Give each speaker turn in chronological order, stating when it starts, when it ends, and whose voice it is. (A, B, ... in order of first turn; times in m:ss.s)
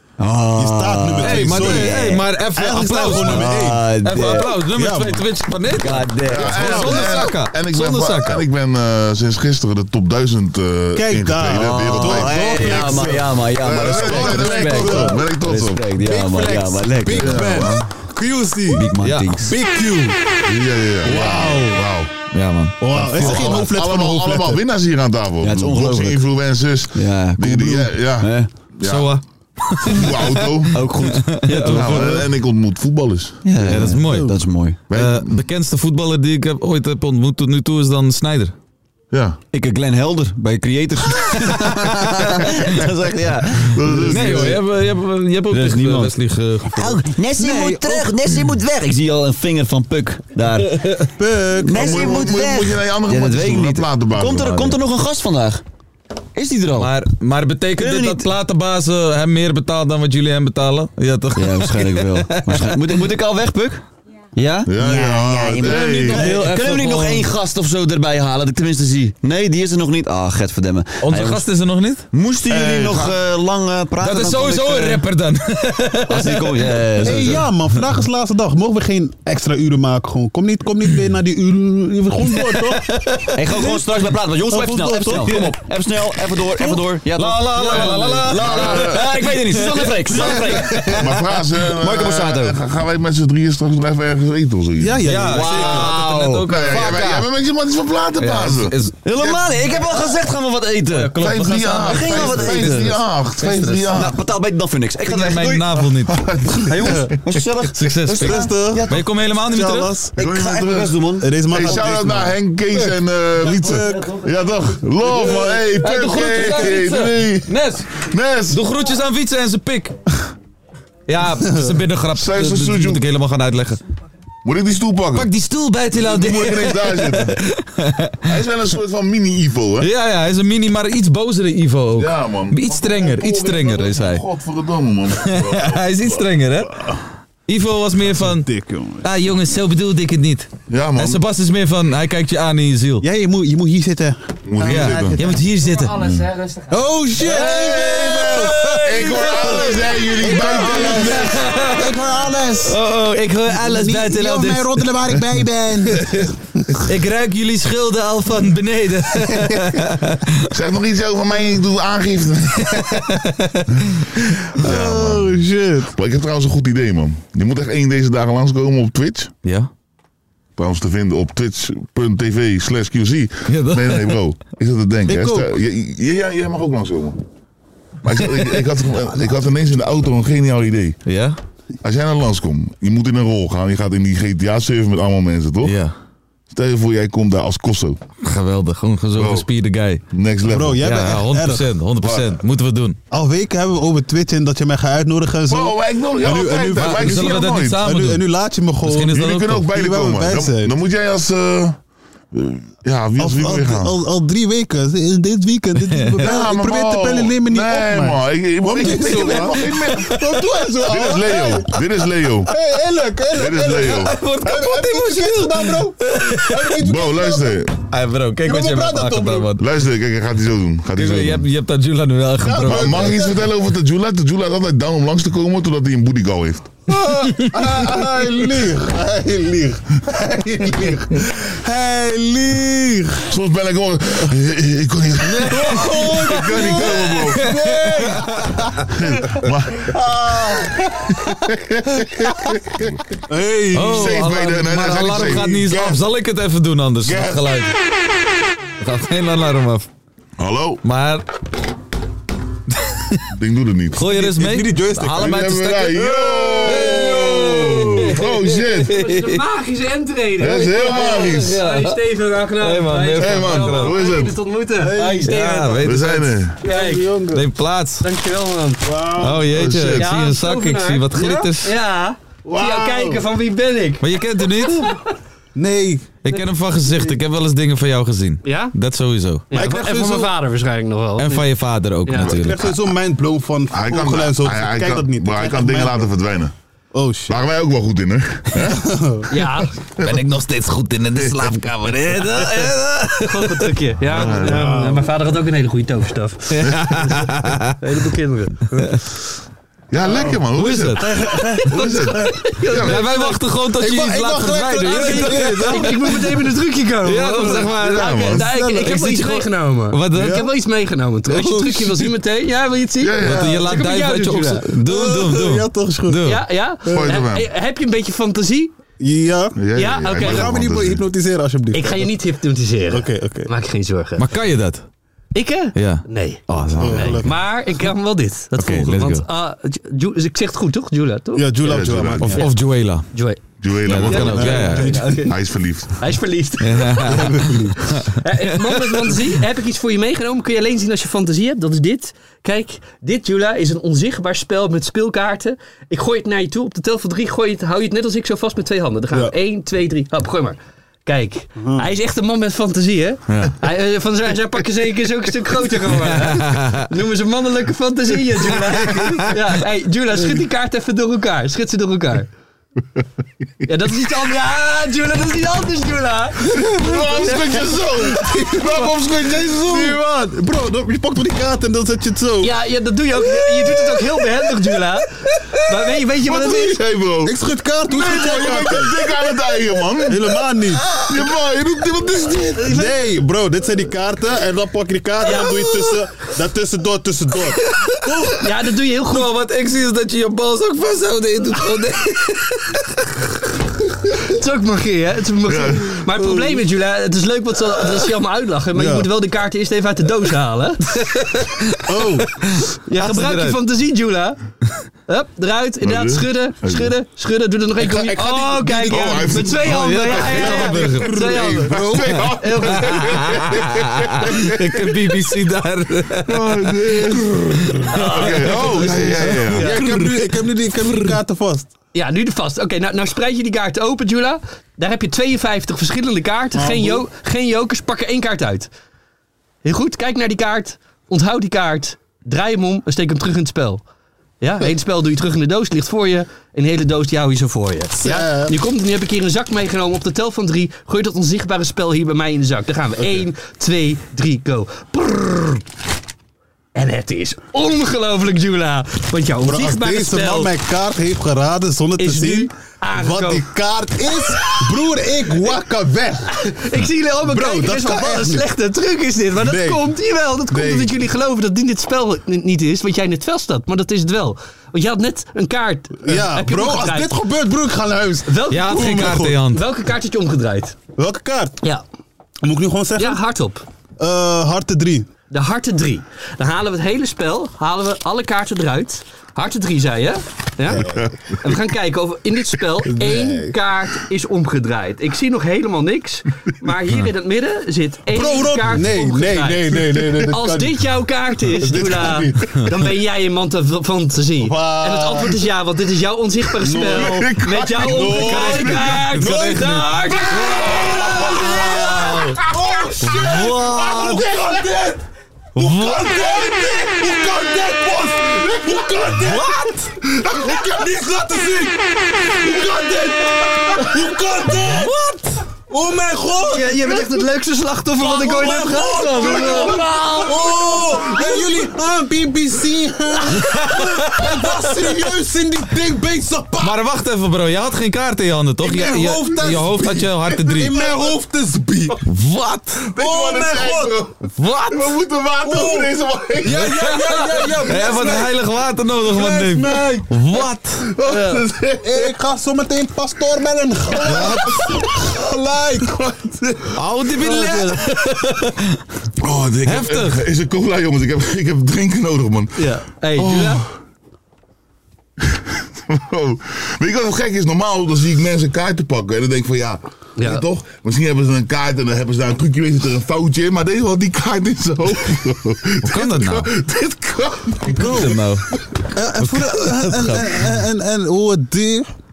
0:00.2-0:02.3 A
0:00.5-0:03.8 B
0:01.2-0:08.5 C
0:03.2-0:04.5 A
0:04.7-0:05.3 B
0:05.8-0:07.2 A
0:06.3-0:15.9 D
0:06.5-0:07.3 B
0:11.0-0:15.2 B
0:11.6-0:17.7 A
0:16.0-0:18.9 B
0:17.2-0:17.9 D
0:18.7-0:19.6 A
0:19.0-0:19.4 C
0:19.4-0:20.2 B
0:20.5-0:22.1 D
0:21.0-0:21.8 B
0:22.3-0:23.6 C
0:22.8-0:24.6 B
0:22.9-0:29.2 D
0:23.2-0:23.6 A
0:25.4-0:26.2 A
0:26.9-0:28.5 A
0:28.8-0:32.2 C
0:29.8-0:30.8 D
0:30.7-0:32.3 A
0:31.6-0:33.4 D
0:33.4-0:34.8 A
0:33.6-0:34.3 C
0:34.1-0:34.4 B
0:34.9-0:35.4 D
0:34.9-0:38.5 C
0:39.1-0:39.4 D
0:39.5-0:44.6 A
0:43.6-0:44.6 D
0:44.1-0:47.0 C
0:45.5-0:46.1 A
0:46.8-0:55.6 A
0:47.4-0:48.1 B
0:51.2-0:52.5 B
0:51.7-0:54.6 D
0:54.4-0:54.7 C
0:56.4-0:56.9 A
0:56.8-1:03.0 C
0:57.8-0:58.3 A
1:01.4-1:03.8 A
1:04.4-1:11.5 A
1:04.7-1:06.3 D
1:05.7-1:07.3 C
1:11.0-1:12.1 C
1:12.1-1:15.0 A
1:12.5-1:13.2 D
1:14.0-1:17.1 C
1:16.1-1:17.5 A
1:17.0-1:22.9 B
1:22.4-1:23.3 C
1:23.3-1:32.6 A
1:23.6-1:23.8 B
1:24.5-1:25.5 B
1:26.6-1:26.9 B
1:27.2-1:30.4 C
1:28.3-1:29.2 D
1:30.1-1:35.0 D
1:30.1-1:30.9 B
1:34.8-1:35.9 B
1:35.0-1:37.0 C
1:35.3-1:37.2 A
1:36.5-1:39.5 D
1:38.2-1:39.0 C
1:39.0-1:45.9 A
1:40.9-1:43.0 C
1:41.2-1:44.2 D
1:45.0-1:46.3 C
1:46.1-1:47.1 D
1:46.7-1:49.2 A
1:47.8-1:49.9 C
1:48.1-1:48.9 B
1:49.4-1:50.1 B
1:50.2-1:52.3 A
1:50.2-1:58.6 D
1:51.2-1:54.1 B
1:53.5-1:54.2 A
1:55.2-1:58.0 C
1:58.5-2:00.0 C
2:01.1-2:03.8 C
2:02.1-2:03.0 D
2:04.4-2:05.3 D
2:05.2-2:08.3 C
2:05.9-2:07.4 D
2:08.3-2:09.9 D
2:09.8-2:14.2 C
2:12.0-2:16.2 D
2:15.3-2:16.9 C
2:17.5-2:18.5 C
2:18.2-2:19.0 B
2:19.0-2:23.0 C
2:20.7-2:21.2 D
2:23.0-2:25.5 B
2:24.5-2:25.3 D
2:24.6-2:26.1 C
2:25.9-2:26.3 D
2:26.7-2:32.8 B
2:27.2-2:31.9 C
2:27.3-2:31.4 D
2:32.7-2:33.4 C
2:33.1-2:34.7 E
2:33.6-2:36.3 B
2:35.9-2:40.5 C
2:40.5-2:42.8 D
2:42.7-2:43.6 C
2:44.6-2:45.9 B
2:44.6-2:49.3 D
2:49.4-2:49.7 C
2:50.6-2:57.2 D
2:53.5-2:54.2 C
2:55.1-2:55.5 B
2:58.0-3:01.0 D
3:01.1-3:01.4 C
3:01.8-3:05.8 D
3:05.6-3:05.9 C
3:06.5-3:08.0 D
3:08.2-3:10.0 C
3:09.2-3:09.5 D
3:10.1-3:10.9 D
3:10.5-3:11.7 B
3:10.8-3:13.0 C
3:12.0-3:12.3 D
3:13.1-3:19.2 B
3:15.5-3:17.8 D
3:16.8-3:18.2 C
3:18.8-3:19.7 C
3:19.1-3:21.8 D
3:19.7-3:20.7 B
3:22.3-3:23.9 D
3:23.2-3:31.7 B
3:25.9-3:26.3 C
3:26.2-3:30.2 D
3:29.3-3:30.7 C
3:30.8-3:32.5 D
3:32.5-3:37.6 B
3:33.3-3:34.2 D
3:33.8-3:36.8 C
3:36.8-3:37.7 D
3:37.9-3:39.6 C
3:38.4-3:39.5 B
3:39.6-3:41.5 D
3:41.0-3:43.2 C
3:42.4-3:43.4 B
3:42.6-3:46.7 D
3:46.9-3:53.3 B
3:47.1-3:47.8 C
3:53.3-3:57.5 D
3:55.3-4:01.2 B
3:55.5-3:58.3 C
3:58.9-4:00.0 D
4:01.3-4:03.0 D
4:03.3-4:04.3 B
4:03.7-4:07.7 C
4:03.8-4:06.0 D
4:07.0-4:07.5 D
4:08.8-4:09.9 C
4:10.4-4:10.8 D
4:10.8-4:11.2 C
4:12.8-4:13.2 C
4:13.3-4:14.1 D
4:13.9-4:16.0 C
4:14.1-4:17.9 B
4:15.2-4:19.0 D
4:16.6-4:19.4 C
4:18.2-4:25.9 E
4:20.4-4:21.6 D
4:21.2-4:22.0 C
4:22.6-4:24.0 C
4:23.2-4:24.4 D
4:24.8-4:25.5 B
4:25.2-4:26.5 C
4:25.8-4:26.6 D
4:26.6-4:27.2 E
4:26.6-4:27.5 B
4:27.3-4:28.1 C
4:28.0-4:28.9 E
4:28.8-4:29.6 B
4:29.2-4:31.7 C
4:29.5-4:30.1 D
4:29.9-4:34.1 E
4:32.4-4:33.2 B
4:34.0-4:34.9 C
4:34.6-4:35.0 E
4:35.6-4:36.1 B
4:36.2-4:39.5 C
4:38.4-4:38.8 E
4:39.5-4:41.5 E
4:39.5-4:40.3 B
4:41.2-4:42.8 C
4:42.1-4:42.4 E
4:42.2-4:46.1 B
4:43.7-4:46.5 D
4:46.9-4:47.4 B
4:47.3-4:48.8 D
4:48.6-4:49.3 B
4:49.3-4:49.8 E
4:49.8-4:50.2 D
4:50.0-4:53.7 C
4:53.2-4:56.8 E
4:54.1-4:54.8 D
4:54.4-4:55.1 B
4:56.6-4:57.0 D
4:56.9-4:57.8 C
4:57.8-4:59.0 E
4:59.9-5:01.1 D
5:00.1-5:00.4 B
5:00.5-5:01.1 C
5:01.0-5:02.4 B
5:01.7-5:03.0 D
5:01.8-5:03.4 E
5:02.8-5:06.1 C
5:03.8-5:06.4 B
5:04.8-5:14.8 E
5:07.0-5:10.4 C
5:07.8-5:08.5 D
5:08.4-5:09.1 B
5:10.1-5:10.5 B
5:11.3-5:12.1 B
5:13.0-5:13.7 D
5:13.2-5:16.4 C
5:14.8-5:16.3 B
5:16.2-5:18.8 E
5:16.8-5:17.2 B
5:16.9-5:17.5 D
5:19.0-5:22.1 B
5:19.6-5:21.0 D
5:19.7-5:20.5 E
5:21.7-5:24.3 E
5:22.9-5:23.5 B
5:24.2-5:24.8 C
5:25.3-5:31.8 E
5:25.8-5:27.3 C
5:26.8-5:27.6 B
5:28.5-5:29.3 C
5:31.4-5:32.4 B
5:31.6-5:32.4 D
5:32.2-5:33.1 C
5:33.1-5:33.4 E
5:33.6-5:36.0 D
5:33.8-5:35.2 C
5:34.0-5:35.4 E
5:34.4-5:35.2 B
5:36.0-5:37.0 E
5:36.6-5:39.2 C
5:37.0-5:38.0 B
5:38.2-6:02.3 E
5:51.6-5:51.9 B
5:56.1-5:56.9 C
6:03.7-6:07.6 E
6:06.5-6:07.3 B
6:06.7-6:10.0 D
6:08.3-6:12.5 B
6:12.4-6:15.1 E
6:13.4-6:14.0 B
6:15.6-6:16.8 E
6:16.2-6:22.8 D
6:17.2-6:19.0 B
6:20.1-6:21.0 B
6:22.6-6:23.1 E
6:22.6-6:28.4 B
6:25.2-6:26.0 E
6:27.6-6:28.3 C
6:28.4-6:29.5 E
6:29.1-6:33.0 C
6:34.3-6:41.3 E
6:35.5-6:36.0 D
6:36.2-6:36.6 B
6:38.7-6:39.1 B
6:41.9-6:42.3 B
6:42.9-6:44.4 E
6:43.0-6:43.6 C
6:45.1-6:53.2 E
6:45.8-6:46.9 D
6:47.8-6:52.2 B
6:48.9-6:55.0 D
6:49.6-6:51.2 C
6:52.8-6:57.2 C
6:56.3-6:57.4 D
6:58.0-6:59.7 E
6:58.0-7:00.0 D
6:58.9-7:01.7 B
6:59.5-7:00.1 C
7:00.8-7:01.1 C
7:01.9-7:08.7 E
7:06.6-7:07.0 B
7:09.6-7:13.8 E
7:14.4-7:25.6 E
7:18.0-7:18.6 B
7:26.8-7:30.5 E
7:29.4-7:36.3 B
7:32.0-7:33.5 E
7:34.1-7:34.7 E
7:36.4-7:47.2 E
7:37.2-7:38.5 B
7:39.4-7:39.9 B
7:40.5-7:40.9 B
7:46.0-7:49.4 B
7:48.3-7:50.8 E
7:48.5-7:49.6 C
7:51.0-7:51.6 B
7:52.4-7:53.2 B
7:53.0-7:53.6 E
7:54.0-7:55.1 B
7:55.3-8:00.9 E
8:00.7-8:01.1 B
8:00.8-8:01.3 D
8:01.4-8:22.3 E
8:02.8-8:03.5 B
8:08.1-8:10.8 B
8:11.5-8:12.7 B
8:14.4-8:15.4 B
8:16.6-8:25.0 B
8:16.8-8:19.2 D
8:19.2-8:19.4 C
8:20.5-8:22.2 D
8:25.6-8:26.2 C
8:25.6-8:31.8 B
8:30.4-8:30.8 D
8:32.3-8:34.9 B
8:34.5-8:35.4 C
8:35.7-8:37.3 B
8:36.4-8:41.5 E
8:38.0-8:46.8 B
8:39.4-8:39.8 D
8:43.4-8:44.9 C
8:46.6-8:50.8 C
8:48.6-8:52.0 B
8:52.0-8:52.9 C
8:52.9-8:56.8 D
8:53.0-8:54.0 B
8:54.4-8:55.0 C
8:55.4-8:55.9 B
8:56.4-8:58.4 B
8:56.4-9:00.9 C
8:59.1-9:00.1 B
9:00.9-9:02.1 D
9:01.8-9:06.0 B
9:04.0-9:04.8 D
9:05.9-9:06.5 D
9:06.8-9:08.6 C
9:07.2-9:07.9 E
9:09.2-9:13.7 D
9:09.6-9:10.2 C
9:12.6-9:13.6 E
9:15.3-9:28.2 D
9:20.2-9:20.4 E
9:25.8-9:26.5 C
9:27.8-9:28.5 C
9:27.8-9:28.2 B
9:28.9-9:31.9 B
9:29.2-9:30.5 C